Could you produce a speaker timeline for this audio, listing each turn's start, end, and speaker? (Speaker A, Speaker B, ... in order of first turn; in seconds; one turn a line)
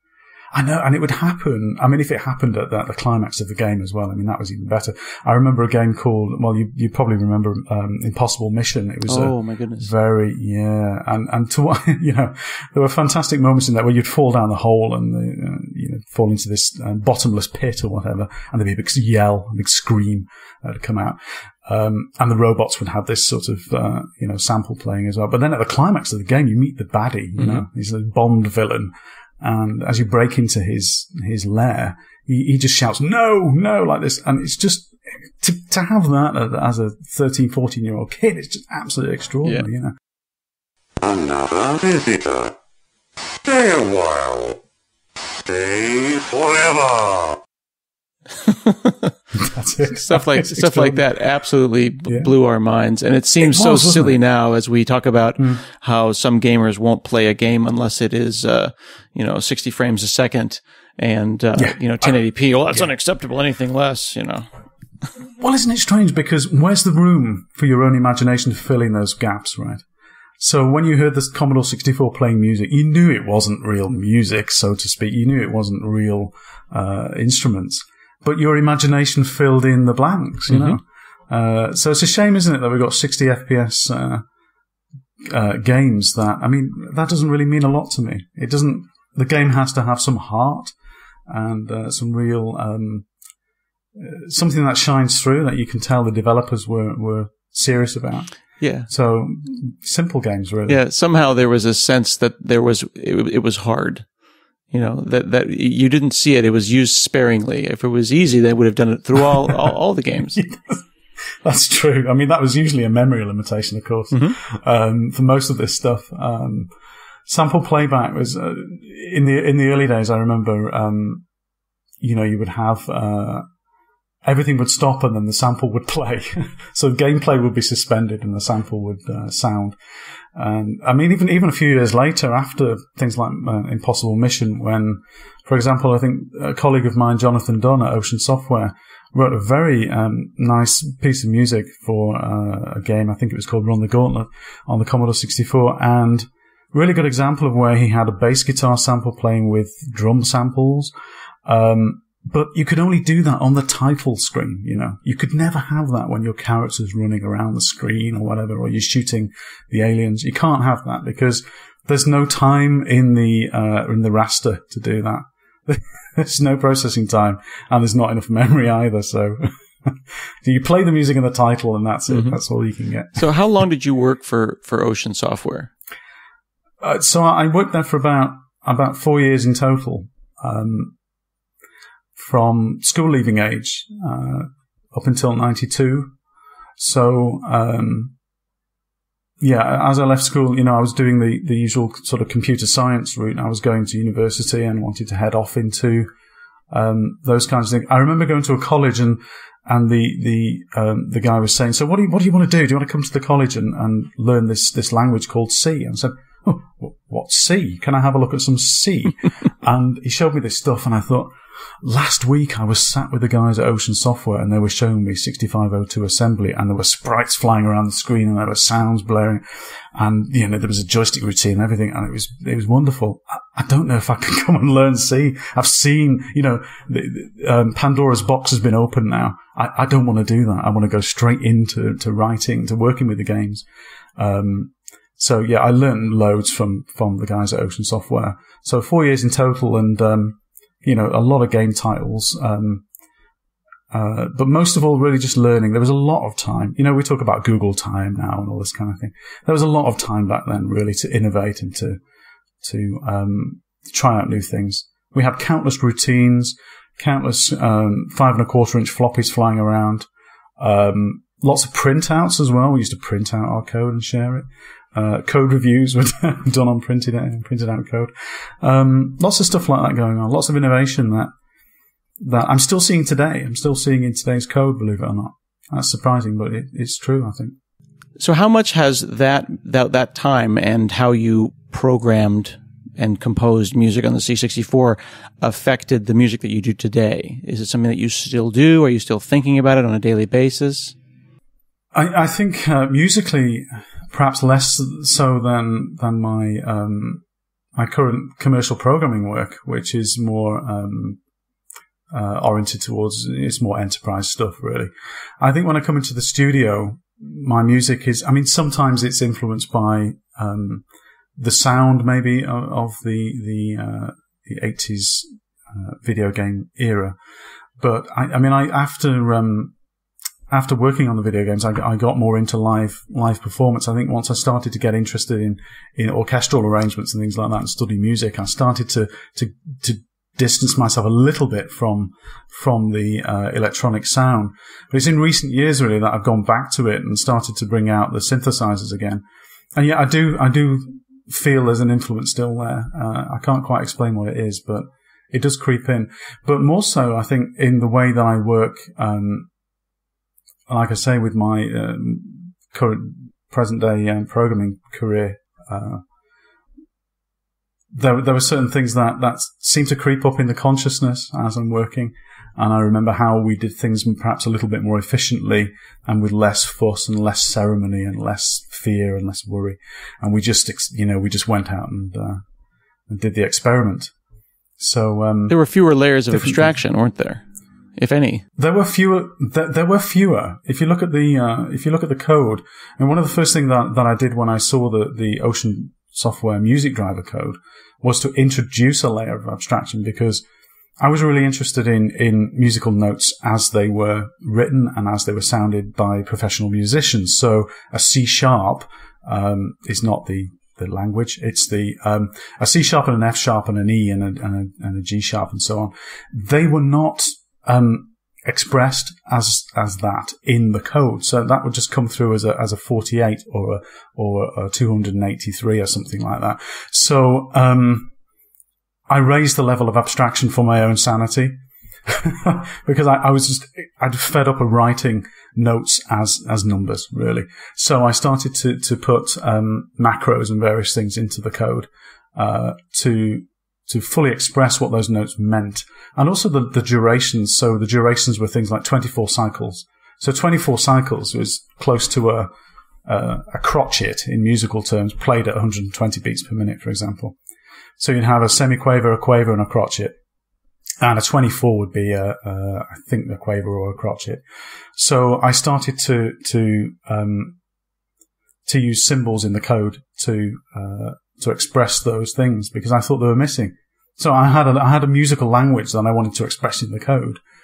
Speaker A: 0.5-39.9
Speaker B: 9.1-9.9
Speaker C: 41.0-42.5
Speaker C: 43.5-44.6
Speaker C: 45.5-47.4
Speaker B: 48.4-49.1
Speaker A: 49.3-51.0
Speaker B: 49.8-64.5
Speaker A: 52.1-52.3
Speaker A: 53.4-54.2
Speaker A: 65.4-69.8
Speaker A: 70.4-84.2
Speaker B: 80.5-80.8
Speaker A: 85.2-90.7
Speaker A: 91.3-93.1
Speaker A: 93.9-98.3
Speaker B: 98.6-98.9
Speaker A: 98.9-100.8
Speaker B: 100.7-104.1
Speaker B: 104.7-110.4
Speaker A: 110.3-110.8
Speaker A: 111.4-116.7
Speaker A: 117.3-121.2
Speaker A: 122.0-123.5
Speaker A: 124.2-129.8
Speaker A: 130.3-150.9
Speaker A: 151.4-173.2
Speaker B: 172.1-172.3
Speaker B: 173.2-175.7
Speaker A: 176.8-180.9
Speaker A: 182.2-186.1
Speaker A: 186.8-188.1
Speaker A: 189.4-196.1
Speaker A: 196.7-211.3
Speaker A: 211.8-219.4
Speaker A: 219.9-233.6
Speaker A: 234.2-242.8
Speaker A: 243.9-252.0
Speaker A: 252.6-260.1
Speaker A: 260.6-271.3
Speaker A: 272.2-277.6
Speaker B: 278.2-290.9
Speaker A: 291.9-297.2
Speaker A: 297.8-301.2
Speaker A: 302.1-310.8
Speaker A: 311.4-317.2
Speaker A: 317.8-319.7
Speaker A: 320.5-339.2
Speaker A: 339.7-349.5
Speaker A: 350.7-356.0
Speaker A: 357.9-372.4
Speaker A: 373.1-374.1
Speaker A: 374.8-375.6
Speaker B: 375.5-377.4
Speaker A: 376.3-376.8
Speaker B: 378.0-378.4
Speaker A: 378.6-390.4
Speaker A: 391.0-418.1
Speaker A: 419.1-442.5
Speaker A: 443.1-447.4
Speaker A: 448.0-450.1
Speaker A: 451.0-454.4
Speaker A: 454.9-457.6
Speaker A: 458.6-467.4